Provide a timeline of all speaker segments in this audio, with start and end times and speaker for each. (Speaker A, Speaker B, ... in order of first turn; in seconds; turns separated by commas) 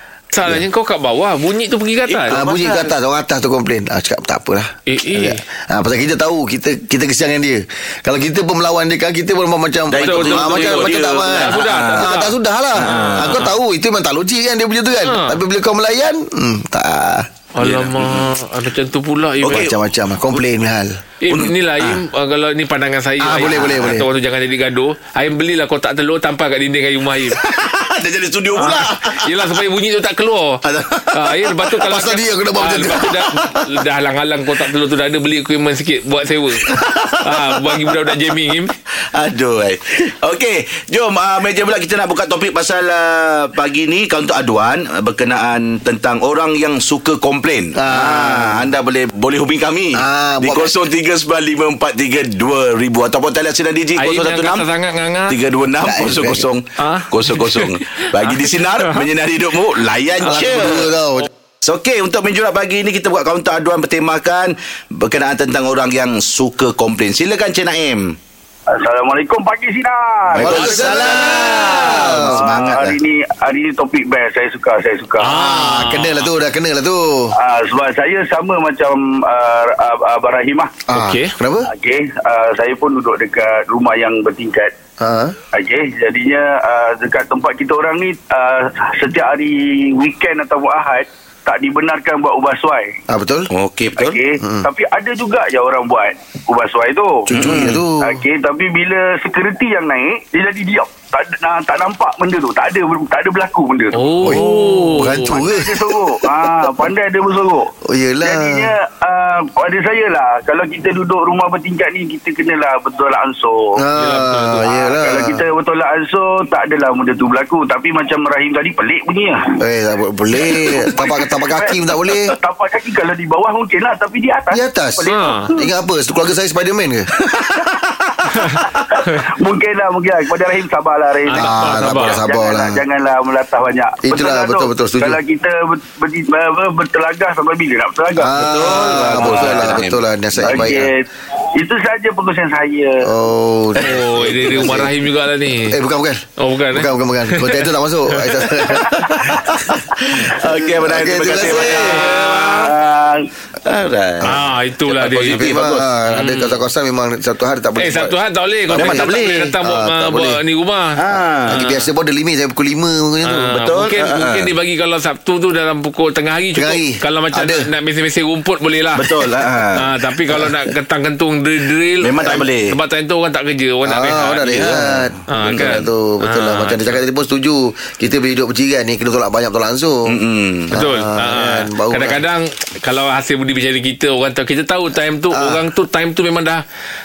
Speaker A: 0.3-2.9, Speaker B: 2.1-2.5, Speaker C: 2.3-17.3, Speaker A: 4.9-5.4, Speaker B: 9.9-12.1, Speaker A: 9.9-13.5, Speaker B: 12.8-13.5, Speaker A: 15.0-15.4, Speaker A: 17.5-19.7, Speaker B: 17.6-18.3, Speaker B: 19.4-19.8, Speaker C: 19.5-20.9, Speaker A: 21.2-27.4, Speaker B: 21.3-22.0, Speaker C: 23.2-24.1, Speaker B: 27.3-29.4, Speaker A: 28.5-30.6, Speaker B: 30.6-31.6, Speaker A: 31.1-38.7, Speaker C: 31.8-33.5, Speaker B: 36.6-38.3, Speaker B: 39.1-54.6, Speaker C: 47.8-48.7, Speaker C: 50.0-50.7, Speaker A: 54.0-55.4, Speaker B: 55.3-60.9, Speaker C: 55.8-56.5, Speaker A: 56.8-59.0, Speaker A: 60.2-61.2, Speaker C: 60.2-61.3, Speaker B: 61.6-68.0, Speaker D: 68.7-75.4, Speaker C: 70.3-72.5, Speaker B: 70.4-73.0, Speaker A: 71.0-72.0, Speaker A: 75.2-76.3, Speaker C: 75.3-77.3, Speaker D: 77.4-80.8, Speaker C: 80.9-81.7, Speaker A: 80.9-81.3, Speaker D: 81.7-84.7, Speaker C: 85.0-85.3, Speaker D: 85.5-93.0, Speaker C: 93.1-93.5, Speaker B: 93.5-94.2, Speaker D: 94.0-97.3, Speaker B: 97.3-97.8, Speaker C: 97.3-98.2, Speaker D: 98.0-104.1, Speaker A: 103.9-105.4, Speaker C: 104.2-106.9, Speaker B: 104.3-104.8, Speaker D: 105.2-107.7, Speaker C: 107.8-108.7, Speaker D: 108.2-113.7, Speaker C: 113.8-115.4, Speaker A: 113.9-114.7, Speaker D: 114.6-119.5, Speaker C: 119.6-122.3, Speaker D: 120.4-125.7, Speaker C: 124.5-127.1, Speaker A: 125.1-125.5, Speaker B: 127.3-127.9, Speaker A: 128.3-128.6, Speaker D: 128.6-139.6, Speaker A: 131.3-132.2, Speaker C: 131.3-132.8, Speaker C: 134.0-135.2, Speaker C: 138.2-140.9, Speaker B: 138.4-140.4, Speaker D: 140.4-143.1, Speaker C: 143.1-145.0, Speaker A: 143.8-145.8, Speaker C: 145.6-149.9, Speaker A: 146.4-148.3, Speaker B: 149.0-152.9, Speaker C: 150.7-152.0, Speaker A: 151.4-152.7, Speaker D: 152.7-153.2, Speaker B: 153.6-155.8, Speaker A: 154.2-156.6, Speaker C: 155.3-160.4, Speaker A: 157.8-160.9, Speaker B: 158.7-159.3, Speaker B: 160.9-161.6, Speaker C: 161.5-163.5, Speaker A: 161.5-161.9, Speaker A: 163.2-169.1, Speaker B: 163.5-164.5, Speaker C: 166.5-167.7, Speaker B: 168.9-169.8, Speaker A: 169.8-177.0, Speaker B: 172.0-172.7, Speaker C: 173.8-180.1, Speaker B: 174.4-175.7, Speaker B: 180.1-180.7, Speaker C: 180.7-182.2, Speaker A: 180.7-186.6, Speaker C: 185.3-185.6